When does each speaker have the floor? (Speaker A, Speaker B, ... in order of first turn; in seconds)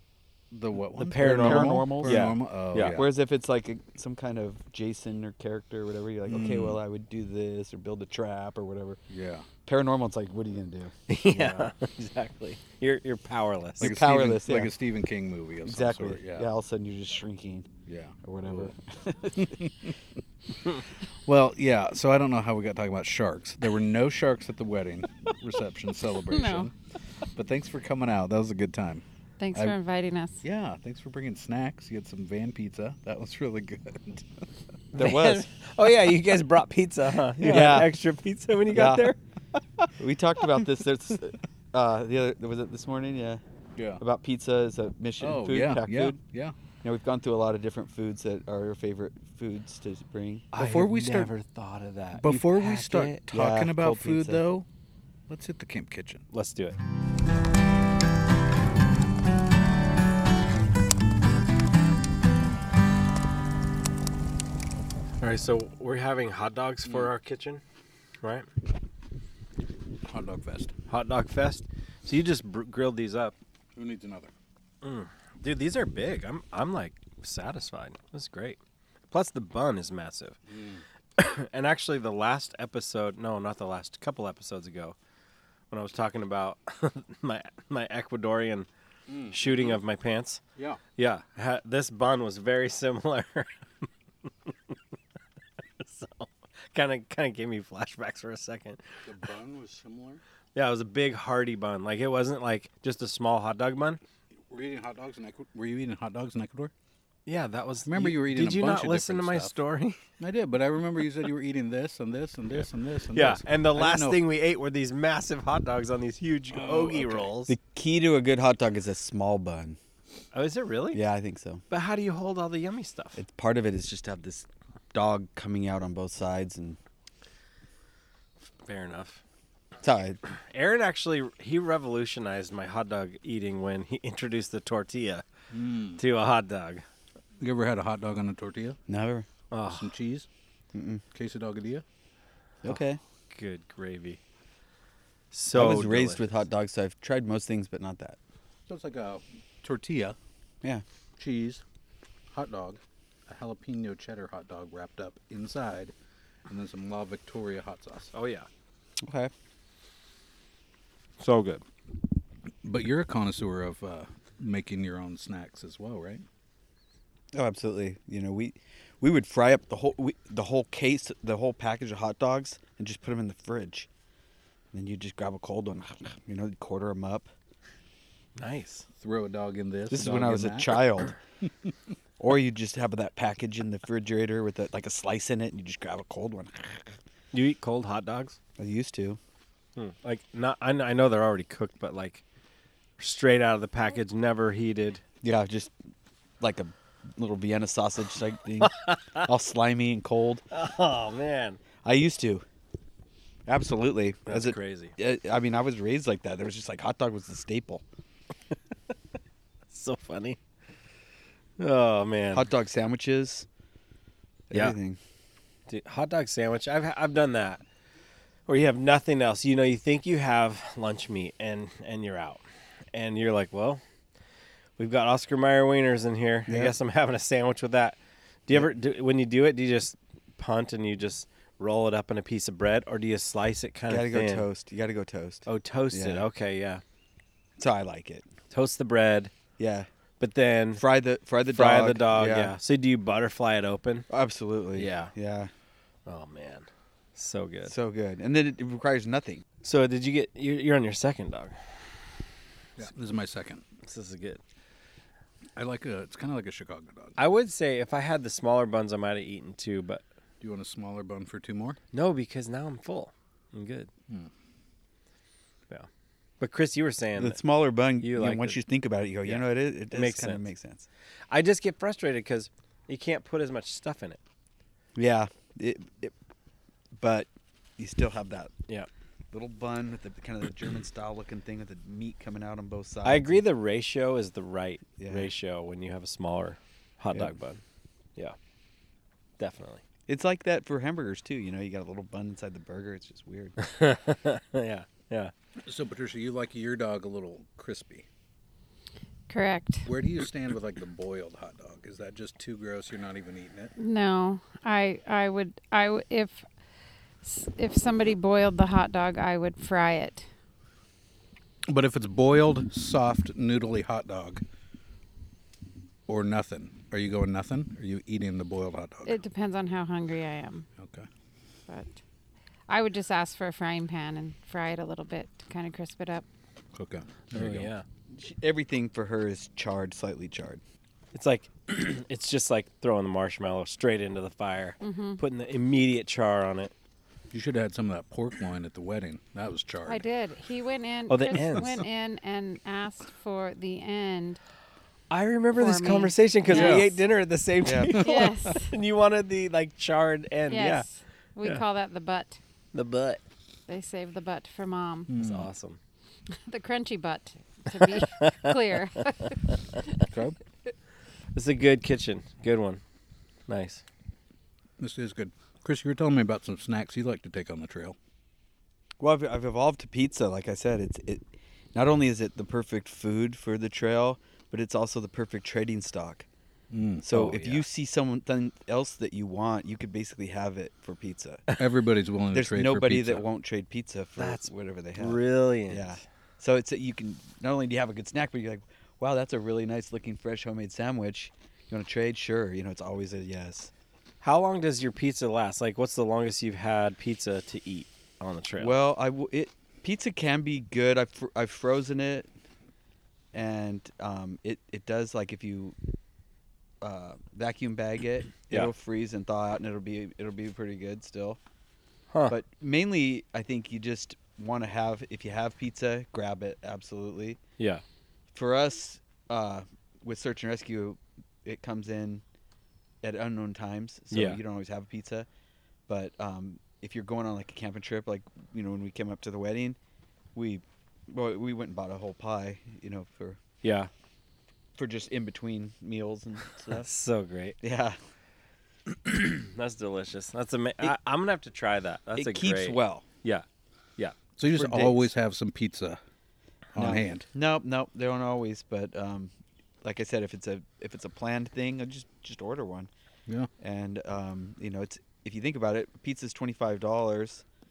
Speaker A: 0.5-3.1, 6.3-6.8, 9.1-9.4, 11.3-11.7, 13.8-16.5, 17.9-18.7, 19.4-19.9, 21.2-26.7, 27.3-29.8, 30.4-34.3, 37.4-37.8, 45.2-46.5, 50.5-51.3, 52.2-54.6, 55.3-56.2, 66.8-67.1, 70.0-70.7, 73.8-74.3, 80.5-80.8, 89.1-89.8, 90.5-90.8, 99.0-100.2, 104.5-106.7, 107.8-109.5, 110.2-114.2, 116.5-117.3, 135.5-136.0, 137.4-138.8, 139.7-140.3, 141.1-141.8, 148.7-150.2, 151.2-151.6, 152.3-155.9, 156.5-158.1, 162.6-166.2, 179.0-180.8, 252.8-253.6, 255.6-257.2, 260.4-261.8, 295.6-298.1, 299.9-303.7, 311.7-314.4, 316.1-319.1, 320.8-321.1, 326.7-327.7, 337.3-340.0, 341.4-341.7, 346.5-346.9, 355.1-355.5, 360.1-360.4, 364.8-367.9, 376.7-377.0, 381.6-383.2, 444.4-446.0, 446.8-447.2
Speaker B: 1.0-3.0, 11.1-14.0, 35.0-39.2, 50.5-53.2, 56.3-56.8, 65.2-67.6, 68.2-68.5, 70.9-73.3, 74.8-78.6, 79.1-80.4, 81.2-85.0, 85.7-88.7, 89.3-90.4, 91.0-94.8, 95.8-99.0, 100.5-104.0, 107.2-110.0, 113.1-117.5, 120.3-121.0, 121.7-123.2, 128.6-129.2, 130.3-135.2, 136.0-136.8, 139.5-139.9, 143.3-144.2, 145.3-146.4, 158.1-158.5, 161.2-161.6, 178.4-178.9, 187.3-188.4, 189.8-192.2, 193.0-195.0, 198.6-199.3, 200.5-201.6, 204.3-204.9, 209.7-210.4, 211.6-212.5, 215.7-217.6, 218.5-223.8, 224.8-234.4, 235.4-236.8, 238.5-239.3, 240.2-240.8, 241.5-244.1, 244.8-245.1, 246.1-247.7, 249.6-251.9, 253.8-254.4, 257.2-260.0, 261.9-263.9, 266.4-267.4, 268.0-268.6, 269.2-270.5, 271.3-274.2, 283.0-287.6, 289.4-289.8, 293.6-295.3, 327.3-327.9, 331.1-336.7, 341.1-341.8, 345.1-350.9, 352.7-353.2, 355.2-355.8, 357.7-359.8, 361.3-362.8, 363.5-363.8, 377.1-377.7, 384.2-386.0, 394.2-398.8, 412.1-412.4, 424.1-424.4, 433.6-433.9, 436.8-437.6, 438.9-443.4
Speaker C: 1.2-2.4, 2.9-9.0, 9.6-10.9, 13.8-14.7, 15.7-17.7, 18.2-19.6, 34.9-35.5, 37.5-37.9, 38.7-39.1, 40.0-43.4, 44.0-46.2, 46.8-50.5, 53.3-54.4, 117.5-119.8, 120.9-121.6, 123.2-126.8, 129.8-130.2, 138.9-139.3, 140.7-141.0, 142.6-143.0, 145.5-148.2, 159.0-159.3, 167.3-173.9, 174.7-177.3, 179.9-181.1, 182.2-186.9, 188.6-189.2, 195.2-195.7, 196.4-200.4, 201.8-202.4, 203.5-207.8, 212.3-213.4, 214.5-215.0, 226.5-226.8, 233.9-236.2, 237.6-238.3, 239.6-239.9, 240.8-242.5, 244.1-245.5, 247.7-249.4, 267.2-270.9, 274.9-276.1, 277.0-278.5, 279.3-283.4, 285.0-285.3, 290.1-293.6, 328.1-330.6, 347.6-348.0, 369.0-376.2, 377.0-381.4, 382.3-393.7, 398.6-402.3, 403.3-405.8, 406.8-411.4, 412.3-417.4, 418.3-422.2, 423.0-425.3, 425.9-429.8, 430.4-433.4, 434.8-436.9, 437.6-438.0, 442.1-443.0, 444.5-445.1, 446.8-449.3, 449.8-452.9, 453.6-457.4
Speaker D: 26.3-26.7, 29.4-30.4, 299.3-299.9, 303.8-306.4, 307.2-310.3, 319.0-320.6, 321.7-322.0, 322.7-326.2, 334.8-335.2, 339.9-344.4, 345.5-347.0, 347.9-348.7, 350.5-352.4, 353.7-355.1, 356.3-359.4